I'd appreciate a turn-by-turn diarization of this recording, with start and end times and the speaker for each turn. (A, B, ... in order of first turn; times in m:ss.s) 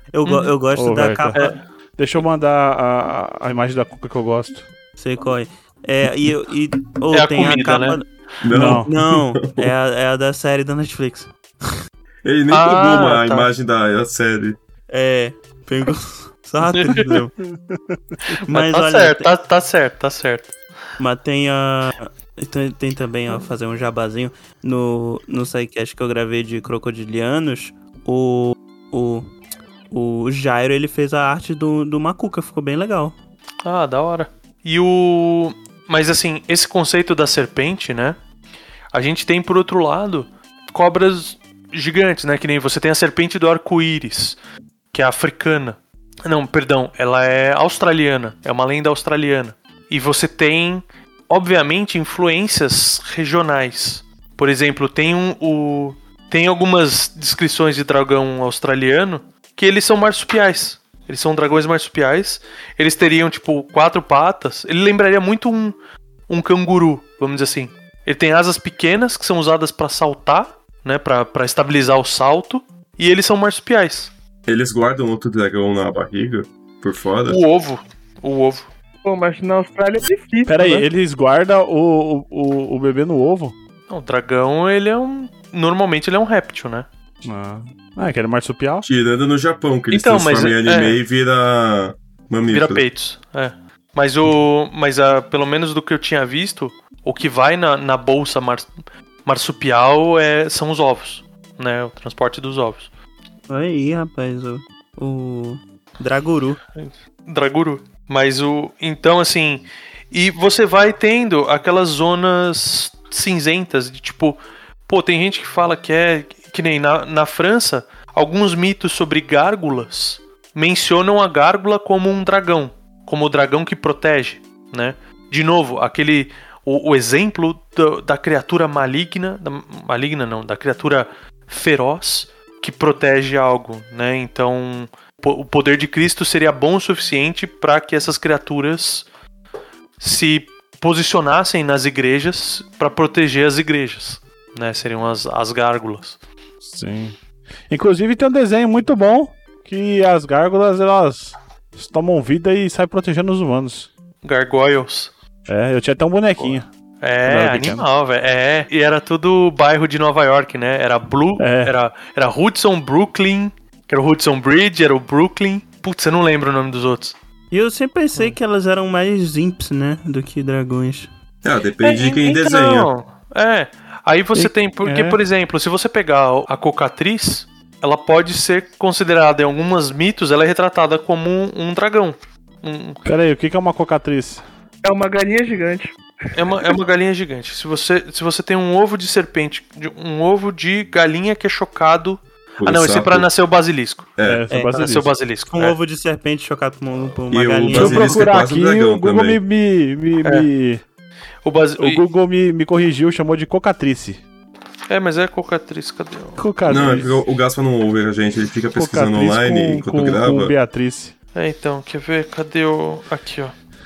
0:00.1-0:01.5 A
0:00.2-0:00.5 B
0:00.7-0:01.4 C
0:01.3-0:01.6 B
0:02.0-0:04.7 C
0:05.0-0:11.7 A
0:07.1-0:08.0 B
0:08.4-0:09.7 D
0:08.5-0:08.9 C
0:12.2-0:14.6 D
0:12.5-0:13.5 B
0:14.9-0:17.3 A
0:16.7-0:17.2 B
0:18.3-0:20.5 B
0:18.5-0:19.3 A
0:21.0-0:29.3 A
0:29.9-0:33.2 A
0:33.6-0:38.2 B
0:38.9-0:44.4 B
0:44.9-1:05.8 B
1:06.3-1:14.1 B
1:14.4-1:17.4 D
1:17.3-1:18.7 B
1:19.0-1:20.9 E
1:20.5-1:23.5 C
1:23.9-1:26.8 B
1:27.2-1:28.8 C
1:28.8-1:32.8 D
1:29.9-1:31.0 B
1:32.5-1:38.7 B
1:39.2-1:42.9 B
1:43.5-1:46.6 A
1:46.8-2:19.0 B
2:20.0-2:26.2 B
2:26.6-2:27.2 C
2:27.7-2:33.9 C
2:34.2-2:35.1 B
2:35.5-2:36.7 C
2:36.4-2:47.2 B
2:37.2-2:37.8 C
2:41.4-2:41.7 C
2:47.5-2:51.1 A
2:51.4-2:52.9 D
2:51.8-3:03.0 B
2:54.3-2:55.2 C
3:03.0-3:04.4 C
3:04.8-3:06.8 E
3:06.3-3:14.1 B
3:12.6-3:13.3 D
3:14.2-3:15.1 C
3:14.5-3:14.9 A
3:14.7-3:15.8 B
3:15.5-3:18.3 A
3:17.3-3:19.4 D
3:17.7-3:20.8 C
3:21.4-3:22.0 B
3:21.8-3:24.2 C
3:24.9-3:26.9 B
3:26.4-3:27.1 C
3:26.7-3:30.5 D
3:28.7-3:31.1 C
3:31.3-3:33.5 B